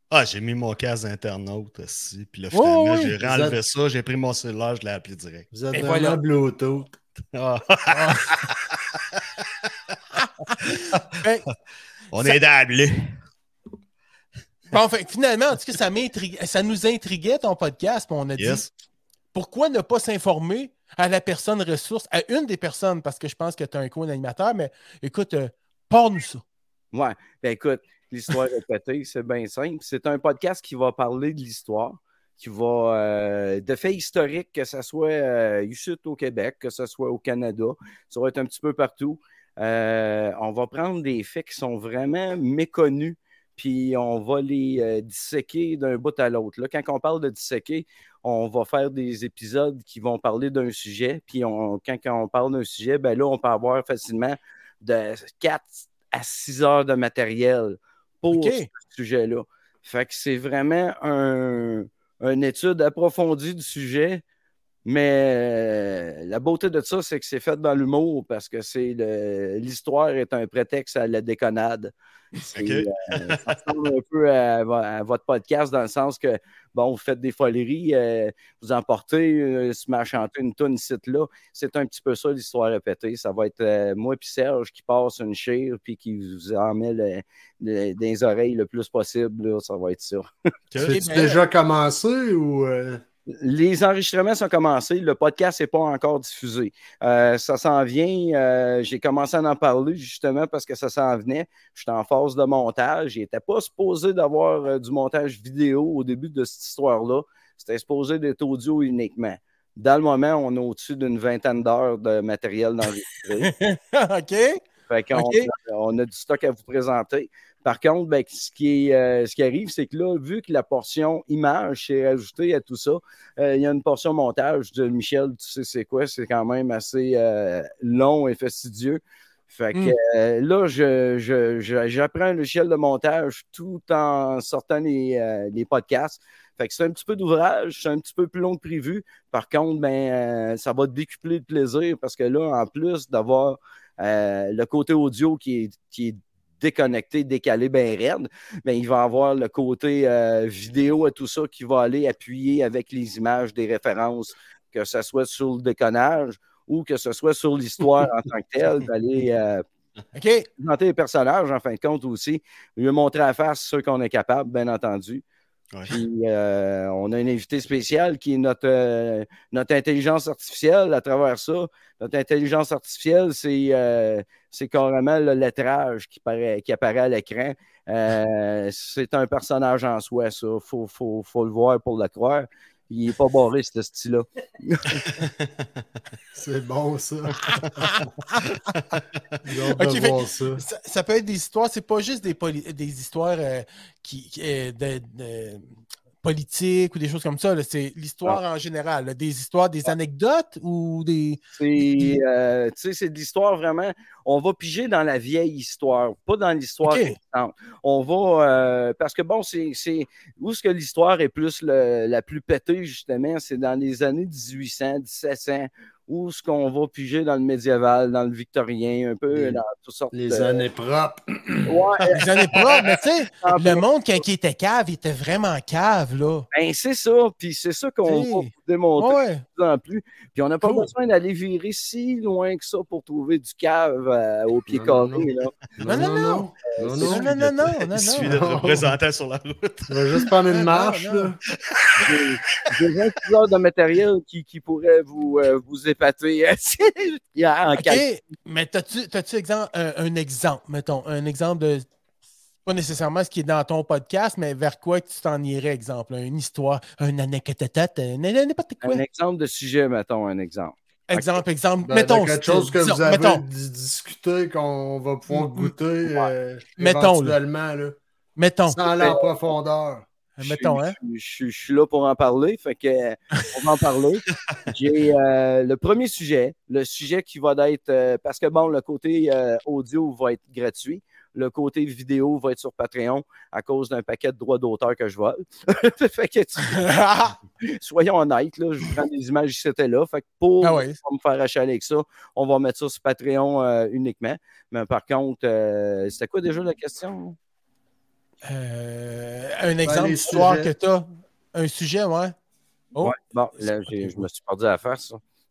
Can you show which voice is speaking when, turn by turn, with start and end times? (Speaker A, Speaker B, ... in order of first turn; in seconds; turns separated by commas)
Speaker A: 0.1-5.5, Speaker B: 2.5-3.1, Speaker C: 3.2-3.6, Speaker C: 5.5-6.9, Speaker B: 5.7-6.2, Speaker A: 7.3-9.9, Speaker B: 7.9-8.4, Speaker B: 10.2-11.4, Speaker A: 10.6-11.0, Speaker A: 12.1-13.1, Speaker B: 14.7-18.6, Speaker A: 18.4-18.7, Speaker B: 19.3-26.4, Speaker D: 26.9-64.2, Speaker B: 58.3-58.7, Speaker D: 64.8-90.3, Speaker A: 72.5-73.4, Speaker A: 90.7-91.0, Speaker C: 90.8-93.0, Speaker B: 90.8-91.4, Speaker D: 93.3-113.5, Speaker B: 113.4-114.6, Speaker D: 114.9-159.6, Speaker B: 115.1-115.5, Speaker B: 160.1-160.5, Speaker D: 160.6-165.2, Speaker D: 165.9-185.1, Speaker A: 185.1-185.8, Speaker C: 186.3-187.6, Speaker B: 187.5-188.4, Speaker A: 188.7-189.0, Speaker C: 189.4-190.6, Speaker B: 189.7-195.7, Speaker B: 196.2-202.2, Speaker D: 201.6-220.6, Speaker B: 206.8-207.2, Speaker C: 219.3-219.6, Speaker C: 220.1-221.8, Speaker D: 221.7-222.3, Speaker B: 222.1-226.5, Speaker D: 223.4-223.8, Speaker D: 226.5-235.5, Speaker B: 228.0-229.4, Speaker B: 230.6-230.9, Speaker C: 234.7-237.4, Speaker B: 235.8-238.4, Speaker A: 237.3-240.2, Speaker C: 238.2-238.9, Speaker C: 239.9-241.4, Speaker B: 240.5-241.3, Speaker A: 241.7-242.1, Speaker D: 242.0-248.0, Speaker B: 247.7-251.8, Speaker B: 252.6-259.0, Speaker D: 258.8-261.4, Speaker B: 261.1-263.4, Speaker C: 261.8-268.0, Speaker B: 265.3-265.7, Speaker D: 266.1-266.3, Speaker B: 266.8-267.4, Speaker B: 268.4-268.8, Speaker C: 268.7-270.1, Speaker D: 268.9-269.3, Speaker B: 270.4-270.9, Speaker D: 270.4-286.9, Speaker B: 286.6-287.4, Speaker D: 287.6-297.4, Speaker B: 290.6-291.0, Speaker B: 298.4-302.3, Speaker C: 299.8-300.7, Speaker B: 302.9-304.2, Speaker D: 303.0-305.2